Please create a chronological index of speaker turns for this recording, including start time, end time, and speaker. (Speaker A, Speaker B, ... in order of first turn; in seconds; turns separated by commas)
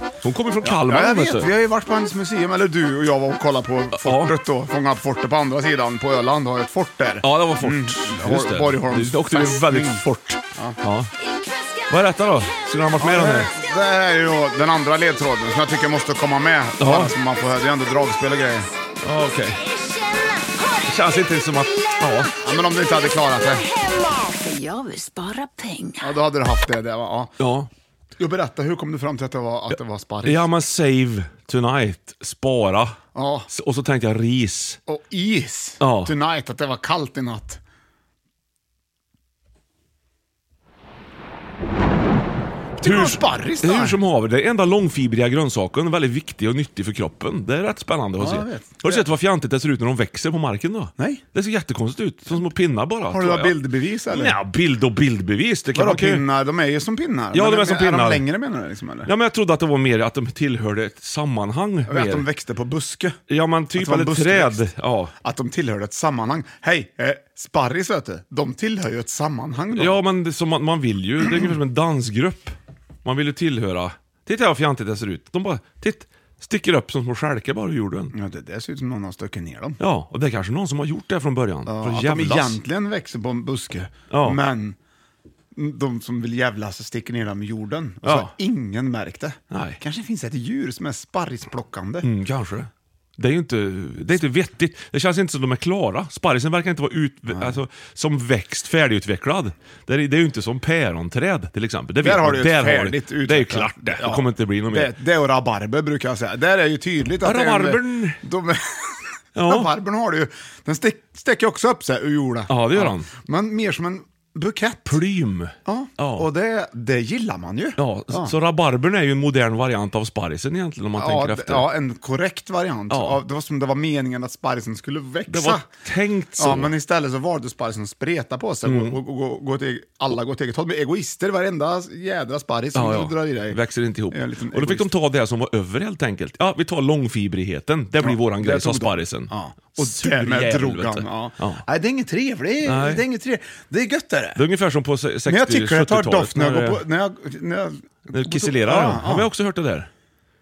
Speaker A: 0.2-1.5, Speaker B: 0.6-10.0, Speaker A: 4.0-4.3, Speaker A: 7.2-11.1, Speaker A: 11.9-13.5, Speaker B: 13.0-18.7, Speaker A: 16.8-17.1, Speaker A: 19.0-19.6, Speaker A: 20.8-22.3, Speaker B: 22.4-23.6, Speaker C: 23.4-26.1, Speaker B: 26.0-27.3, Speaker A: 27.4-27.7, Speaker B: 28.2-30.5, Speaker A: 30.2-33.0, Speaker B: 33.1-33.5, Speaker A: 33.5-34.8, Speaker B: 34.9-37.6, Speaker A: 35.8-36.1, Speaker B: 42.8-44.0, Speaker A: 42.8-53.6, Speaker B: 48.2-49.1, Speaker B: 51.0-51.2, Speaker B: 53.1-54.4, Speaker A: 54.1-56.2, Speaker B: 55.7-59.1, Speaker A: 57.3-58.3, Speaker A: 59.1-62.3, Speaker B: 61.9-63.2, Speaker A: 63.3-65.1, Speaker B: 63.8-64.6, Speaker B: 65.2-70.0, Speaker A: 69.7-78.1, Speaker B: 78.1-79.8, Speaker A: 79.8-82.6, Speaker B: 81.7-84.8, Speaker A: 84.1-84.4, Speaker B: 85.5-92.1, Speaker A: 88.0-88.3, Speaker A: 89.5-89.8, Speaker A: 92.0-104.9, Speaker B: 97.3-97.6, Speaker B: 102.0-115.0, Speaker A: 107.2-108.2, Speaker A: 109.4-109.7, Speaker A: 112.5-113.1, Speaker A: 114.9-116.3, Speaker B: 115.7-118.3, Speaker A: 117.8-121.7, Speaker B: 121.0-125.7, Speaker A: 122.9-123.2, Speaker A: 125.3-126.7, Speaker B: 126.4-133.6, Speaker A: 128.7-129.0, Speaker A: 132.8-141.6, Speaker B: 134.1-134.9, Speaker B: 138.0-144.4, Speaker A: 142.7-143.1, Speaker A: 144.4-146.8, Speaker B: 145.3-149.3, Speaker A: 148.1-149.9